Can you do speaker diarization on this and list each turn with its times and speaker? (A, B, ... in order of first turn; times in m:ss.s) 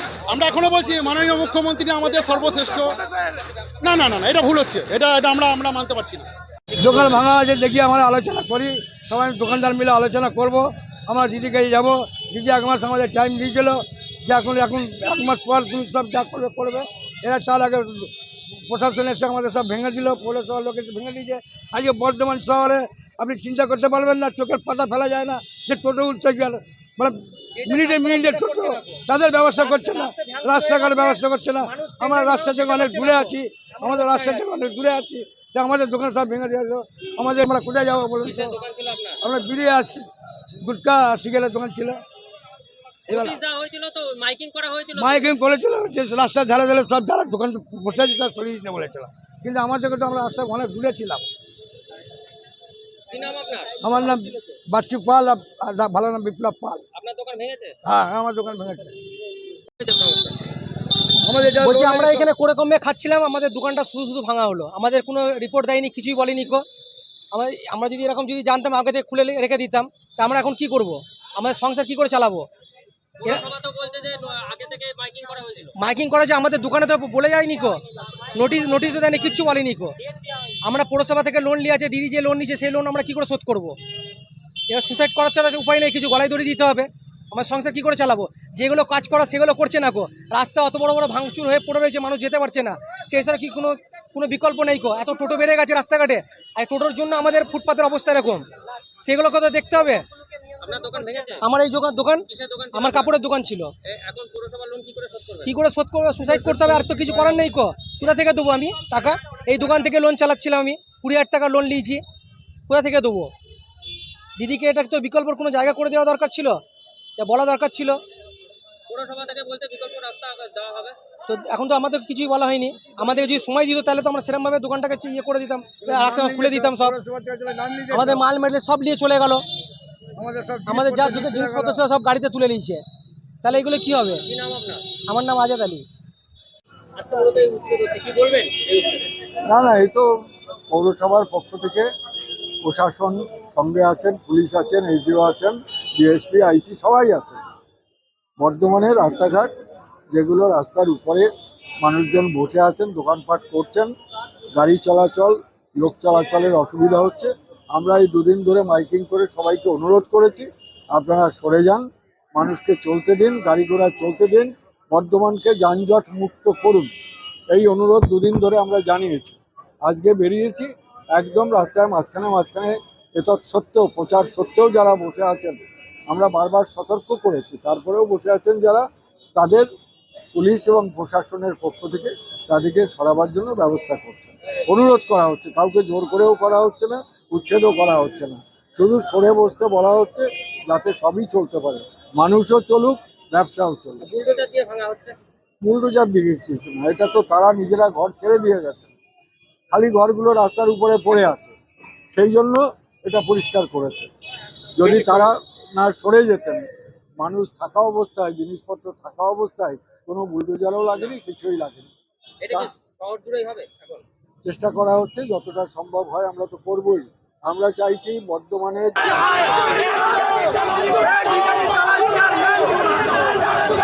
0:00.3-0:03.0 A
0:03.8-0:06.3 A
0:06.8-0:18.1 B
0:18.7-0:38.6 B
0:27.6-0:29.0 C
0:29.5-0:34.5 C
0:38.2-0:39.2 D
0:39.2-0:40.0 B
0:40.6-0:42.0 B
0:43.1-0:45.3 D
0:43.1-0:43.4 B
0:45.0-0:51.2 B
0:53.1-0:54.2 D
0:53.8-0:56.8 B
0:56.9-0:57.7 D
0:57.8-0:58.9 B
0:59.8-1:00.3 D
1:01.2-1:02.2 B
1:01.6-1:06.6 C
1:07.3-1:12.4 C
1:13.2-1:15.7 D
1:15.8-1:17.8 C
1:18.3-1:19.9 C
1:20.6-1:23.7 C
1:24.7-1:38.4 C
1:39.0-1:40.0 C
1:40.6-1:41.4 D
1:41.4-1:43.7 C
1:42.3-1:43.1 D
1:44.0-1:45.5 D
1:45.4-1:52.0 C
1:46.2-1:47.5 D
1:52.7-1:53.3 C
1:54.4-1:56.6 C
1:57.2-1:58.0 C
1:58.9-2:01.0 D
2:01.3-2:06.9 C
2:05.8-2:08.2 B
2:07.9-2:09.4 C
2:10.2-2:11.8 B
2:10.6-2:12.8 C
2:13.4-2:14.2 C
2:14.3-2:14.8 D
2:15.1-2:15.8 C
2:17.0-2:19.1 D
2:19.5-2:20.0 E
2:20.7-2:21.9 E
2:22.6-2:27.4 E
2:28.4-2:29.5 E
2:30.1-2:31.3 E
2:31.8-2:33.9 E
2:34.5-2:41.8 E
2:42.3-2:46.9 E
2:47.5-2:58.8 E
2:59.4-2:59.7 E
3:00.3-3:14.2 E
3:14.0-3:15.1 D
3:15.6-3:18.9 E
3:19.7-3:21.5 E
3:22.1-3:24.1 E
3:24.8-3:26.6 E
3:24.8-3:25.2 D
3:27.2-3:31.9 E
3:32.4-3:34.0 D
3:34.4-3:39.1 E